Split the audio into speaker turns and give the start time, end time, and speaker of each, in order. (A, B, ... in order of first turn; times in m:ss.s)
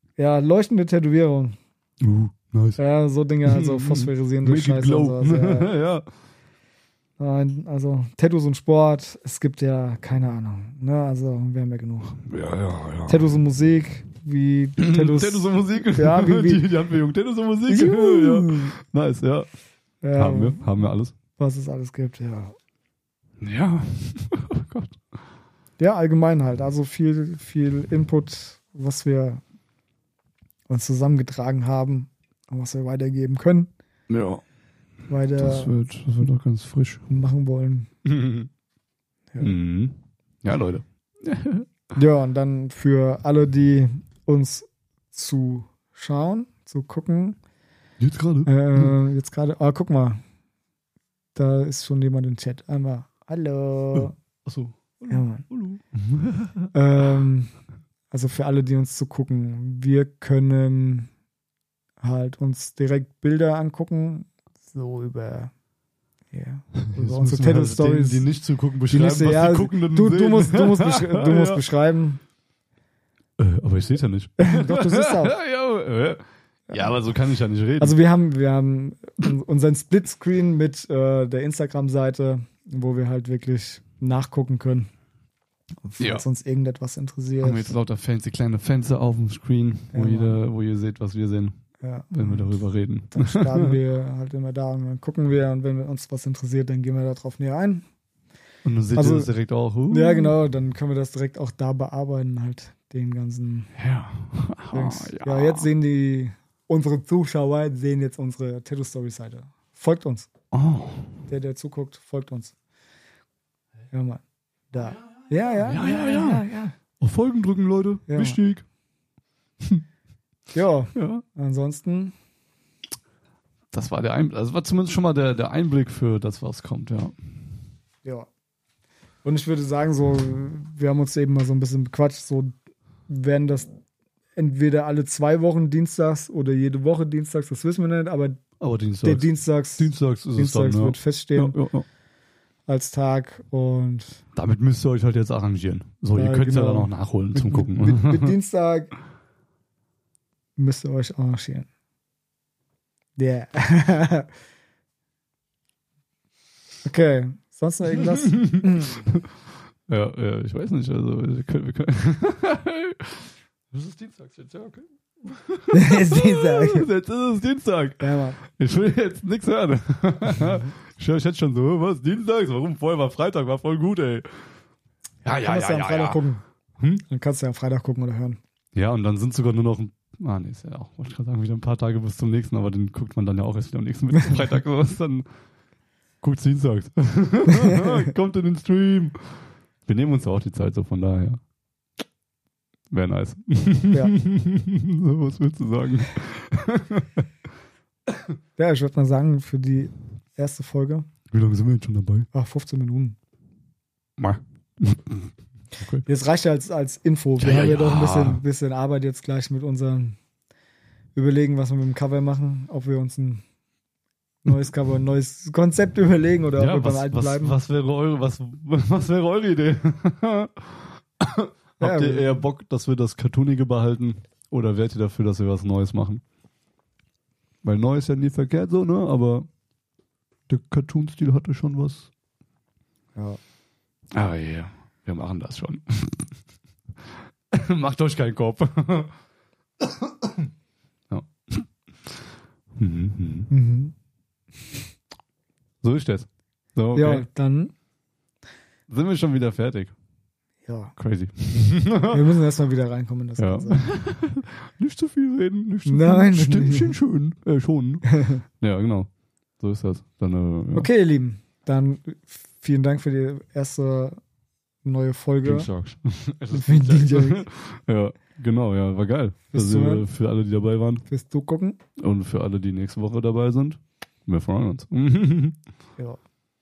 0:00.2-0:01.6 A
0:02.0-0:02.8 B
0:02.8-0:05.7 A
0:03.4-0:06.0 B
0:07.2-0:12.2 A
0:12.2-0:13.2 B
0:13.1-0:16.7 A
0:14.8-0:19.5 B
0:17.7-0:18.7 A
0:20.0-0:20.6 A
0:20.2-0:21.1 B
0:21.4-0:22.5 A
0:23.4-0:25.0 B
0:25.8-0:29.4 A
0:30.7-0:33.7 A
0:34.1-0:34.4 B
0:35.1-0:35.7 A
0:35.4-0:37.1 B
0:37.1-0:37.9 A
0:38.0-0:38.5 B
0:39.4-0:41.7 B
0:41.9-0:47.4 A
0:48.0-0:48.9 B
0:48.4-0:50.2 A
0:51.3-0:54.1 A
0:53.9-0:57.1 B
0:55.1-0:55.5 A
0:56.7-0:57.5 A
0:58.1-1:01.1 A
1:02.0-1:05.5 A
1:06.3-1:08.3 A
1:06.8-1:11.6 B
1:08.9-1:12.2 A
1:13.4-1:18.0 B
1:14.4-1:15.4 A
1:16.7-1:17.0 A
1:17.8-1:24.9 A
1:25.8-1:27.7 A
1:26.0-1:26.2 B
1:27.4-1:31.6 B
1:29.9-1:30.4 A
1:31.8-1:32.5 A
1:32.1-1:33.8 B
1:33.1-1:37.8 A
1:38.6-1:40.4 B
1:38.9-1:39.3 A
1:39.9-1:43.7 A
1:43.8-1:45.7 B
1:44.7-1:50.3 A
1:50.5-1:51.1 B
1:51.3-1:52.5 A
1:53.9-1:56.7 A
1:55.6-1:58.6 B
1:58.1-1:58.4 A
2:00.5-2:02.1 A
2:01.0-2:01.2 B
2:03.7-2:07.1 B
2:09.2-2:12.5 A
2:13.1-2:13.7 A
2:14.4-2:18.4 A
2:18.6-2:21.8 B
2:19.0-2:21.6 A
2:22.7-2:24.2 A
2:24.3-2:28.3 B
2:26.1-2:28.9 A
2:30.6-2:31.7 A
2:33.2-2:34.3 A
2:36.8-2:39.1 A
2:38.0-2:39.2 B
2:39.9-2:54.3 B
2:45.7-2:46.9 A
2:48.0-2:48.4 A
2:50.3-2:50.6 A
2:55.2-2:56.2 B
2:55.4-2:56.4 A
2:57.1-2:58.4 A
2:58.7-3:05.3 B
3:06.2-3:09.2 B
3:07.6-3:08.0 A
3:09.8-3:11.4 B
3:12.9-3:17.2 B
3:18.6-3:21.0 A
3:21.3-3:22.3 B
3:22.3-3:23.2 A
3:24.2-3:25.2 B
3:25.8-3:26.0 B
3:26.0-3:30.2 A
3:27.4-3:28.4 B
3:31.1-3:33.4 A
3:34.4-3:37.6 A
3:36.6-3:46.2 B
3:41.8-3:42.4 A
3:47.6-3:49.5 B
3:50.5-3:52.1 B
3:54.1-3:56.3 B
3:57.5-3:59.1 B
4:00.0-4:00.4 B
4:01.1-4:02.2 B
4:02.8-4:03.5 B
4:03.5-4:03.9 A
4:05.8-4:07.2 B
4:06.9-4:07.7 A
4:08.9-4:09.9 B
4:10.6-4:10.9 A
4:11.0-4:12.2 B
4:12.0-4:13.8 A
4:13.4-4:20.9 B
4:15.8-4:16.9 A
4:20.7-4:24.2 A
4:24.8-4:25.7 A
4:25.4-4:31.0 B
4:26.5-4:27.5 A
4:29.5-4:30.1 A
4:31.0-4:31.8 A
4:32.0-4:35.6 B